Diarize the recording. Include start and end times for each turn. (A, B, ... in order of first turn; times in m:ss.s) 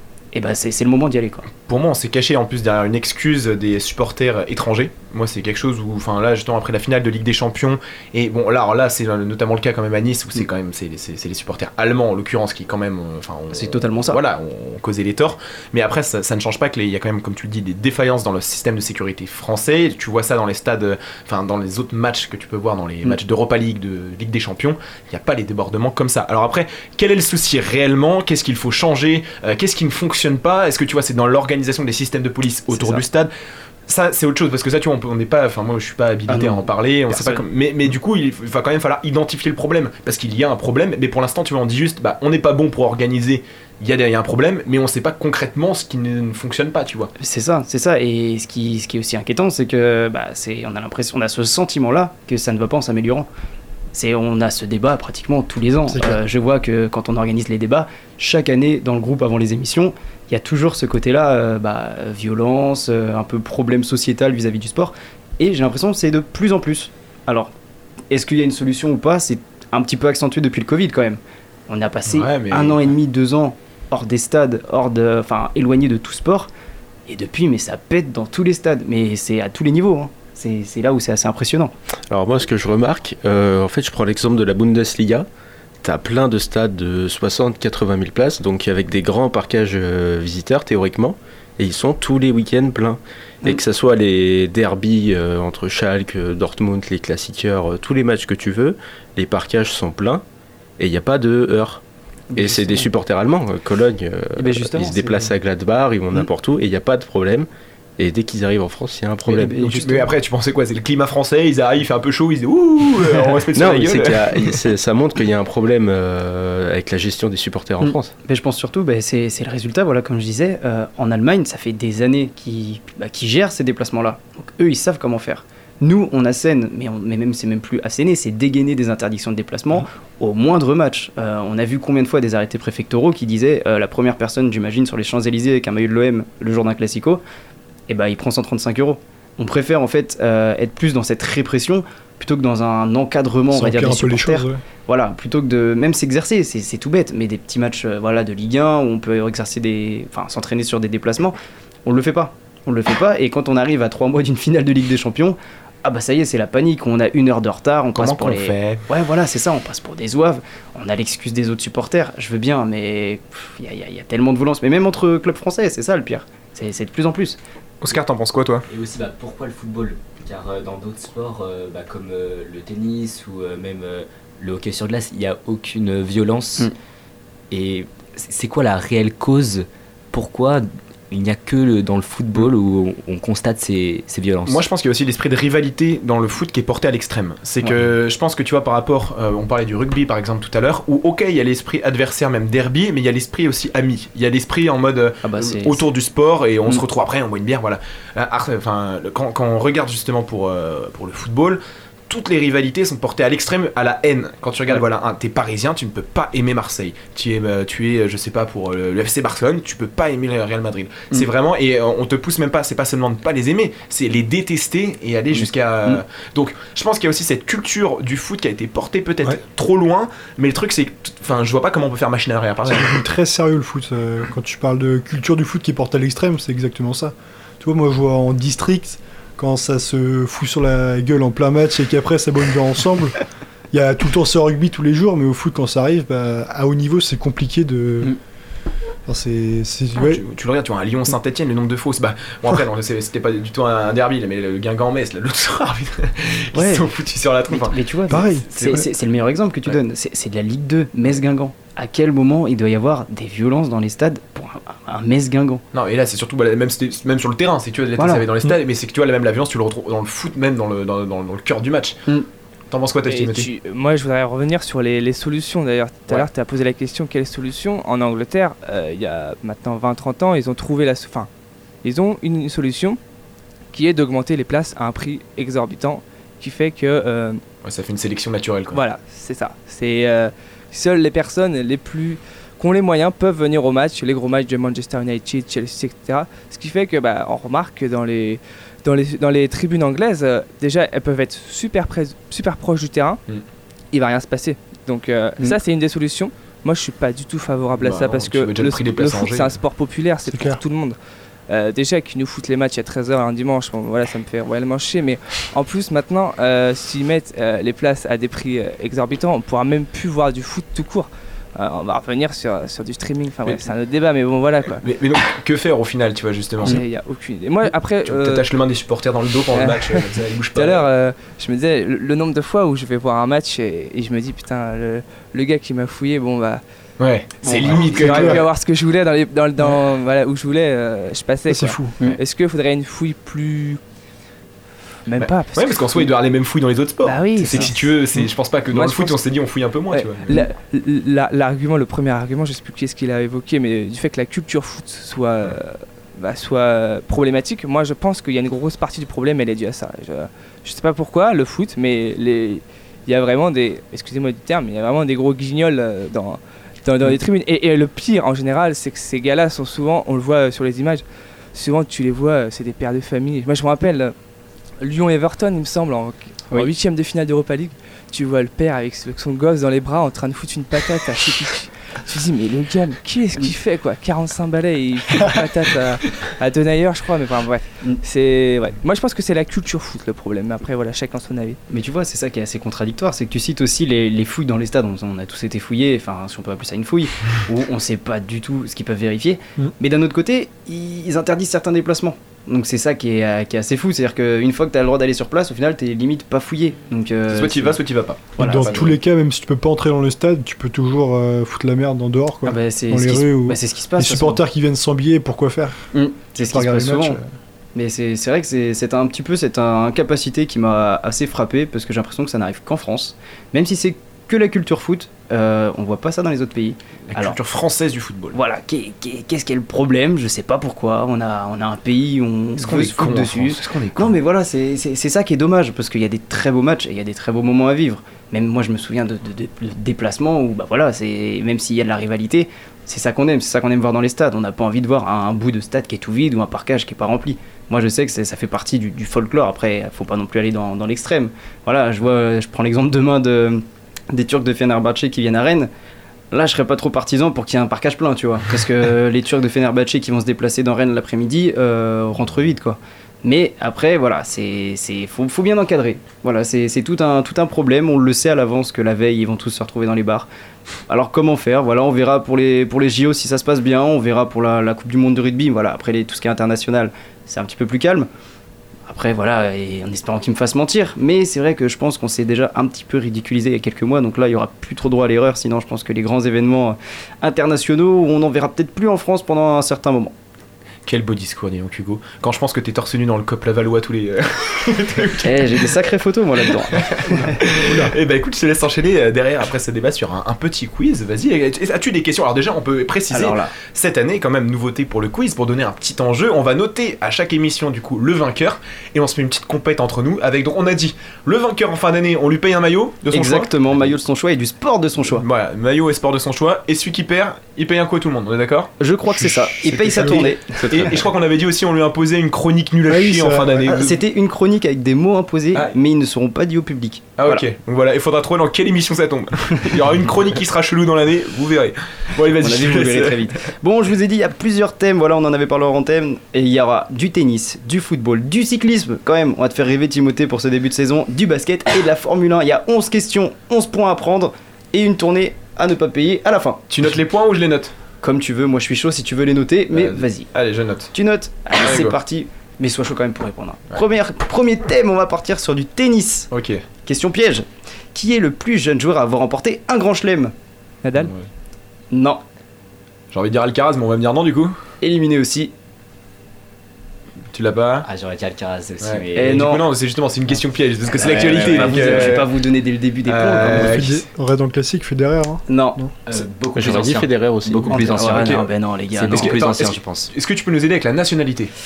0:00.3-0:01.5 A
0:01.6-0:33.3 B
0:13.5-0:14.2 A
0:32.7-0:33.0 A
0:33.9-0:47.1 B
0:36.3-0:37.4 A
0:47.2-0:53.3 A
0:53.9-1:07.5 A
0:55.9-0:56.2 C
1:08.1-1:16.5 A
1:12.1-1:12.8 B
1:17.1-1:21.7 A
1:22.1-1:25.3 D
1:25.8-1:40.2 D
1:40.8-1:41.8 D
1:42.3-1:42.9 A
1:42.3-1:49.6 D
1:44.4-1:45.1 A
1:49.3-1:50.1 A
1:49.3-1:54.6 B
1:53.5-1:58.1 D
1:57.8-2:17.2 A
2:17.9-2:47.4 A
2:23.5-2:24.6 C
2:38.0-2:38.8 B
2:47.8-2:48.7 B
2:48.7-2:56.7 E
2:57.5-3:04.6 E
3:04.4-3:43.0 B
3:15.2-3:15.8 A
3:35.3-3:36.0 A
3:42.7-3:53.2 C
3:53.7-3:58.1 C
3:59.1-4:00.2 C
4:00.0-4:07.8 B
4:06.5-4:06.9 A
4:07.5-4:15.6 A
4:08.1-4:08.8 C
4:15.7-4:22.0 B
4:18.0-4:18.2 A
4:22.7-4:23.5 B
4:23.1-4:31.3 F
4:31.8-4:33.0 F
4:33.7-4:37.4 F
4:37.6-4:38.8 B
4:38.7-4:53.2 F
4:53.9-5:01.0 F
4:57.8-4:59.6 B
5:00.3-5:00.6 C
5:01.5-5:14.8 F
5:14.8-5:16.8 B
5:16.6-5:18.5 F
5:18.0-5:20.9 B
5:19.5-5:26.6 F
5:27.0-5:28.4 B
5:27.4-5:28.0 A
5:27.6-5:33.8 F
5:28.0-5:28.4 C
5:31.5-5:32.1 C
5:35.0-5:36.1 F
5:35.2-5:40.4 B
5:37.0-5:38.0 F
5:38.7-5:39.2 F
5:39.9-6:01.0 F
6:01.5-6:04.1 F
6:04.8-6:21.6 F
6:21.7-6:37.8 A
6:37.3-6:39.0 B
6:38.4-6:39.0 A
6:38.4-6:45.9 C
6:42.4-6:44.4 A
6:45.9-6:47.2 A
6:46.4-6:47.3 C
6:47.7-6:57.4 A
6:57.1-6:58.4 B
6:58.3-7:25.7 A
7:02.6-7:04.1 B
7:26.3-7:40.3 A
7:40.9-7:48.1 A
7:48.9-8:00.1 A
8:00.8-8:05.8 B
8:05.2-8:07.4 A
8:06.4-8:23.5 B
8:07.5-8:07.9 C
8:13.1-8:13.5 A
8:23.1-8:25.2 A
8:25.2-8:28.7 B
8:28.8-8:30.6 A
8:29.2-8:30.3 C
8:29.6-8:34.0 B
8:30.7-8:31.0 D
8:32.9-8:33.7 C
8:33.6-8:37.4 A
8:37.2-8:43.3 B
8:42.4-8:56.6 A
8:56.7-8:57.7 B
8:58.0-9:00.3 A
8:59.7-9:00.9 B
9:00.9-9:06.3 A
9:01.5-9:02.0 B
9:06.3-9:06.6 B
9:06.8-9:10.3 A
9:10.8-9:11.1 F
9:11.0-9:11.2 B
9:11.9-9:12.2 A
9:13.1-9:14.6 B
9:14.8-9:15.5 A
9:17.3-9:17.9 B
9:17.8-9:19.6 E
9:18.8-9:22.3 B
9:19.1-9:19.6 A
9:20.8-9:22.2 E
9:20.9-9:23.8 A
9:23.0-9:24.1 B
9:23.5-9:25.9 C
9:25.5-9:25.8 A
9:26.0-9:30.1 E
9:26.5-9:28.3 D
9:27.7-9:29.4 A
9:28.1-9:28.5 B
9:29.1-9:31.5 B